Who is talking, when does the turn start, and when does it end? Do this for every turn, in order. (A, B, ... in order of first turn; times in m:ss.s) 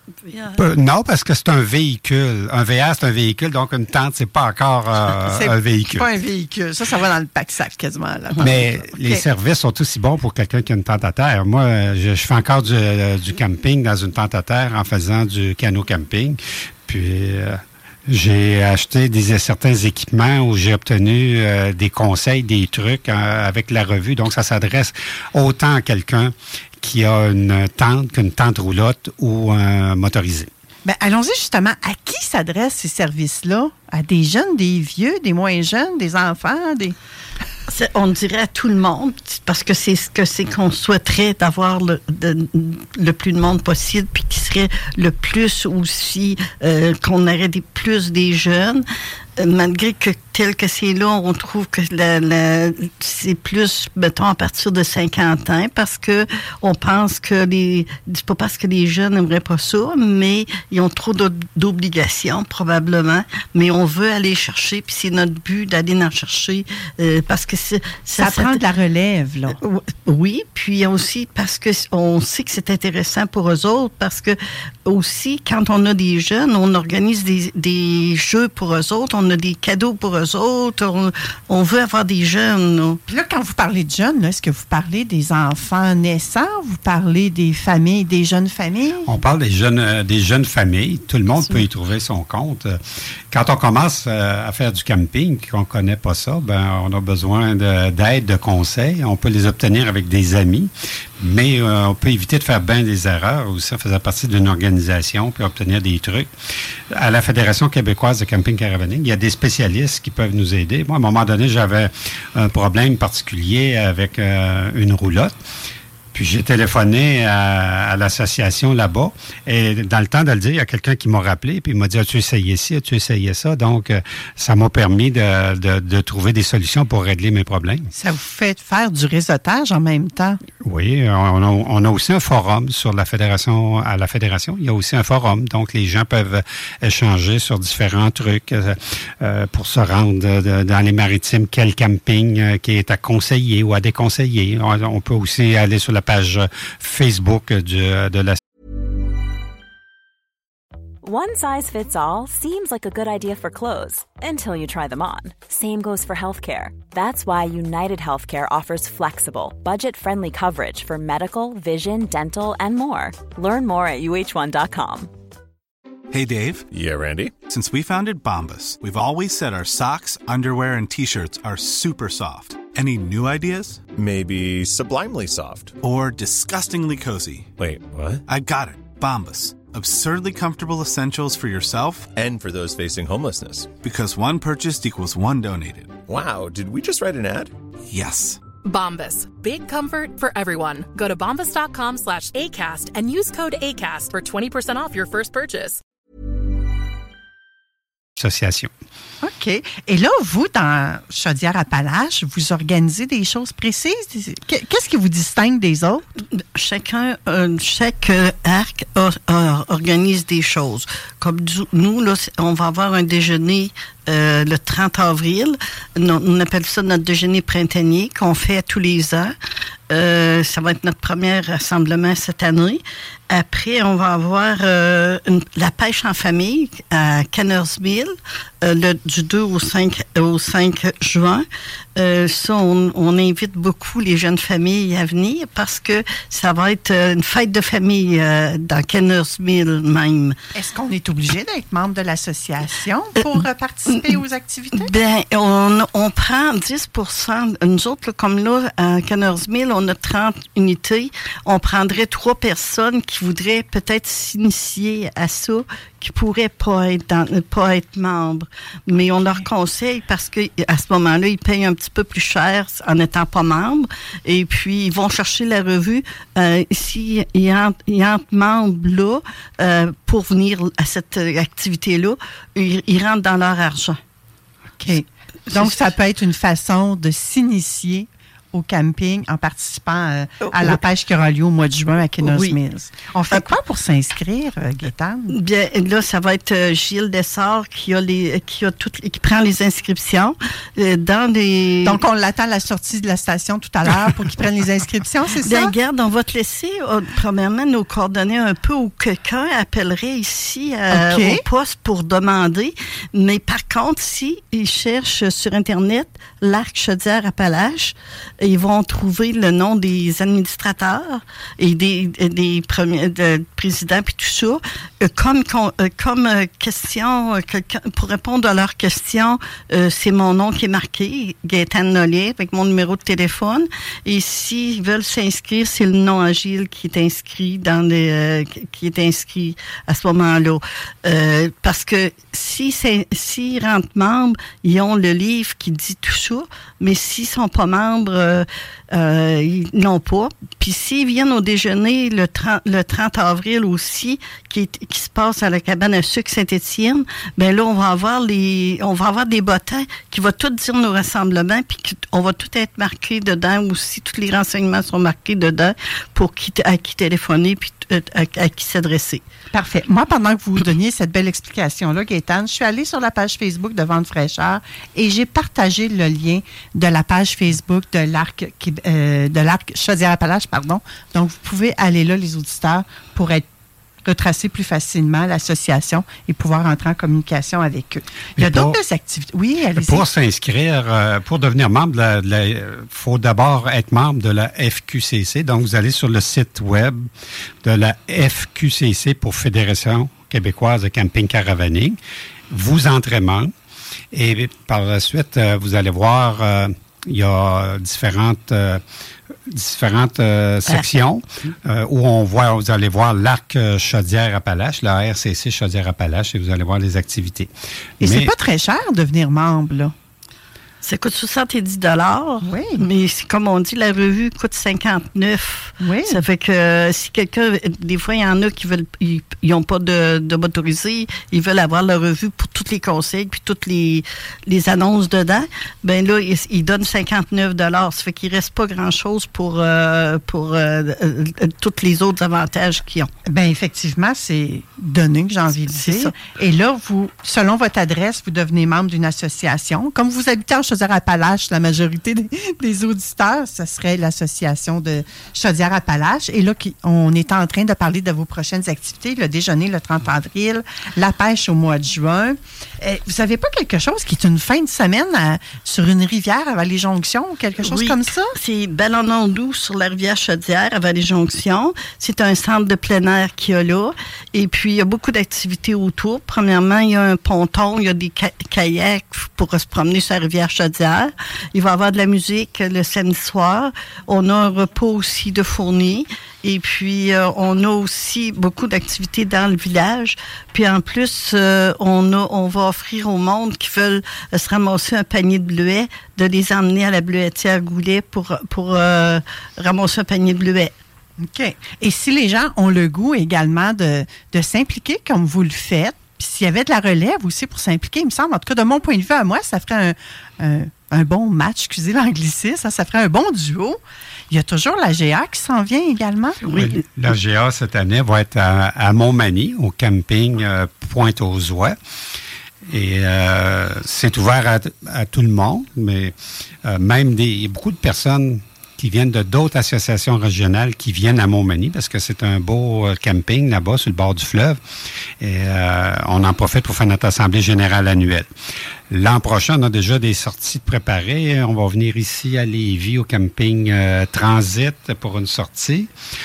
0:00.3-0:00.6 A
0:00.6-0:06.1 B
0:05.1-0:09.2 C
0:08.4-0:30.5 B
0:30.8-0:37.0 C
0:37.7-0:48.8 A
0:49.4-1:08.6 A
1:08.2-1:09.6 C
1:09.6-1:23.0 A
1:23.1-1:29.1 C
1:29.0-1:32.8 B
1:33.3-1:46.3 B
1:46.9-1:55.4 B
1:56.1-2:07.9 B
2:07.9-2:10.4 C
2:10.6-2:28.4 B
2:31.0-2:45.1 D
2:46.1-2:46.7 E
2:46.7-2:47.3 F
2:47.5-2:53.8 E
2:53.9-2:55.8 F
2:55.8-2:57.5 E
2:57.6-2:58.2 F
2:58.2-3:02.1 E
3:02.1-3:03.7 F
3:03.8-3:06.0 E
3:06.1-3:07.5 F
3:07.9-3:08.4 E
3:08.6-3:15.8 G
3:18.2-3:18.7 B
3:19.2-3:26.1 C
3:26.3-3:39.3 A
3:39.9-3:51.4 A
3:52.0-4:00.4 A
4:00.5-4:04.9 C
4:04.7-4:34.0 A
4:34.8-4:45.4 C
4:35.5-4:35.8 A
4:40.5-4:40.8 A
4:42.2-4:42.6 A
4:45.3-4:52.0 A
4:51.8-4:55.7 C
4:55.4-5:59.2 A
5:00.9-5:01.4 C
5:59.5-6:13.4 C
6:14.0-6:20.0 C
6:18.4-6:18.8 B
6:19.8-6:27.1 B
6:27.6-6:32.0 B
6:32.5-6:33.5 B
6:34.1-6:38.8 B
6:39.5-6:48.3 B
6:48.0-6:49.9 C
6:50.8-7:13.1 A
6:52.4-6:52.8 C
6:55.8-6:56.2 C
7:13.2-7:38.4 C
7:15.7-7:16.1 A
7:37.6-8:10.7 A
8:11.2-8:26.4 C
8:26.4-8:26.8 A
8:26.6-8:31.8 B
8:32.7-8:36.1 B
8:36.6-8:44.6 B
8:45.2-8:48.3 B
8:48.9-8:55.9 B